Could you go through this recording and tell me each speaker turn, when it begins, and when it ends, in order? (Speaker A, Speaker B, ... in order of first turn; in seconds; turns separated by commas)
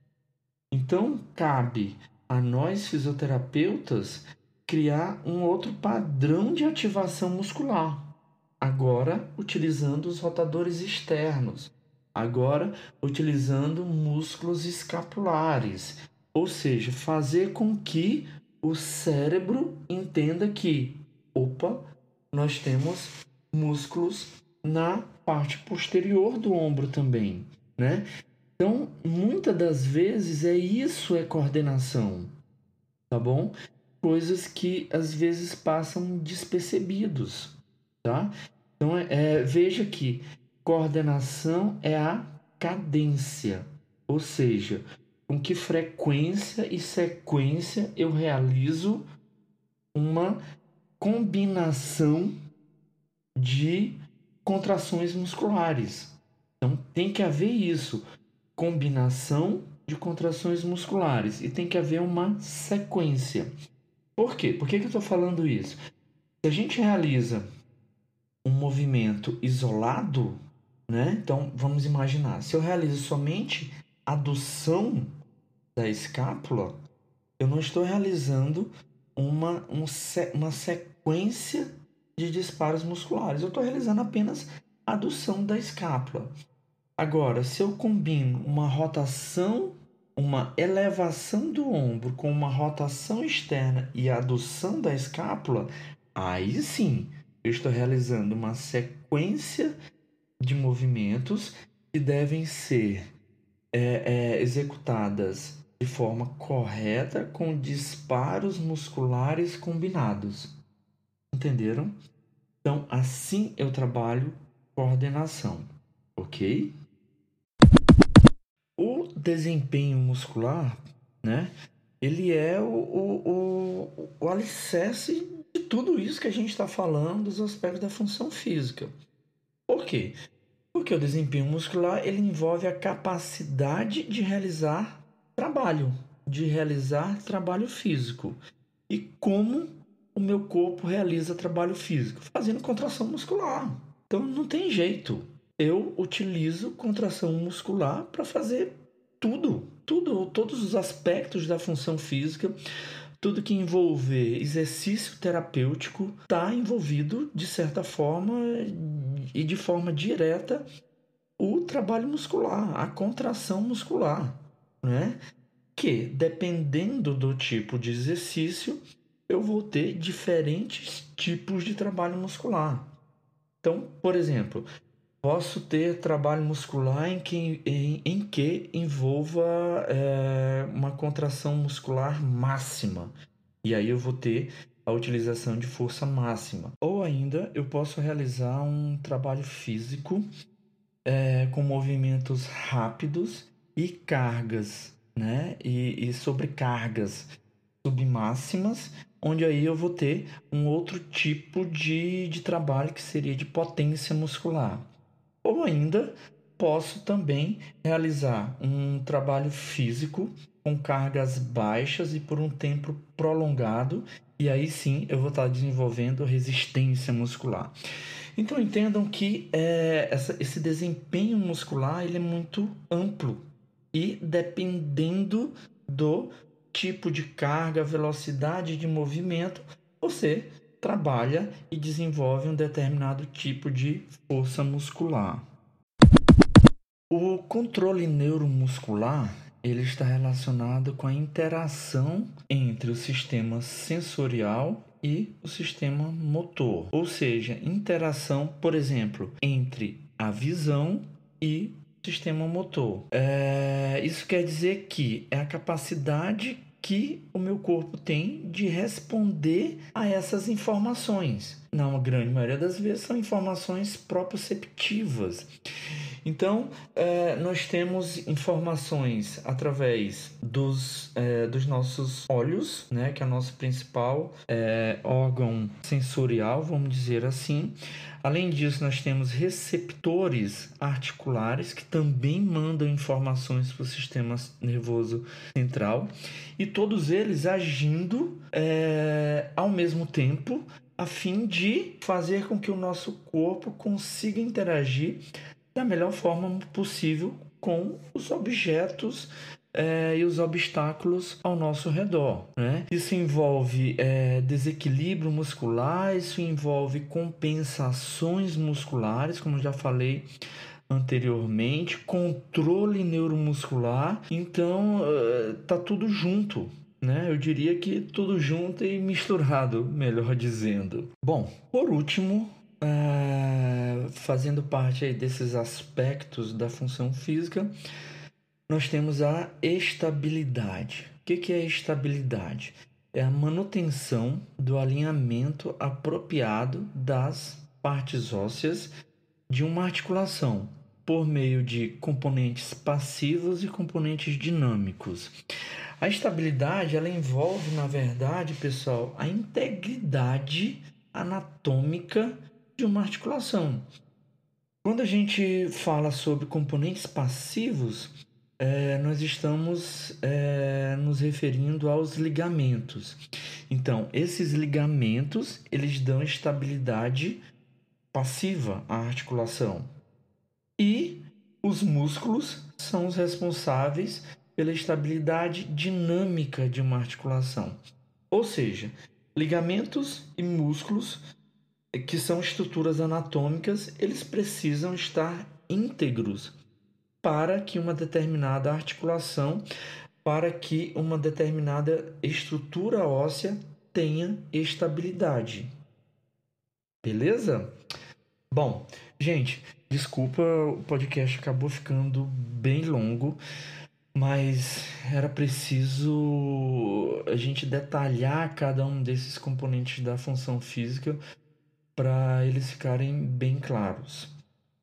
Speaker A: 0.7-28.1, Speaker A: 28.6-32.3, Speaker A: 33.1-49.1, Speaker A: 49.9-50.4, Speaker A: 51.0-52.3, Speaker A: 53.4-58.0, Speaker A: 58.6-63.5, Speaker A: 64.2-65.8, Speaker A: 66.4-67.4, Speaker A: 68.4-75.1, Speaker A: 75.7-76.8, Speaker A: 77.4-86.3, Speaker A: 87.0-99.7, Speaker A: 100.4-103.0, Speaker A: 103.7-110.5, Speaker A: 111.3-111.9, Speaker A: 112.6-116.7, Speaker A: 118.8-128.9, Speaker A: 129.7-130.2, Speaker A: 130.7-138.4, Speaker A: 138.9-152.6, Speaker A: 153.2-160.7, Speaker A: 161.4-165.2, Speaker A: 165.7-172.9, Speaker A: 173.6-174.7, Speaker A: 175.2-190.2, Speaker A: 191.1-197.3, Speaker A: 197.8-204.9, Speaker A: 205.4-217.7, Speaker A: 218.4-235.5, Speaker A: 237.1-265.5, Speaker A: 266.2-295.2, Speaker A: 295.7-310.3, Speaker A: 310.9-327.7, Speaker A: 328.7-338.9, Speaker A: 339.5-345.3, Speaker A: 346.0-353.8, Speaker A: 354.8-367.4, Speaker A: 368.1-369.9, Speaker A: 370.8-377.8, Speaker A: 378.3-381.2, Speaker A: 381.9-386.6, Speaker A: 387.2-389.6, Speaker A: 390.2-395.7, Speaker A: 397.0-397.7, Speaker A: 398.5-403.4, Speaker A: 404.1-411.2, Speaker A: 411.9-414.3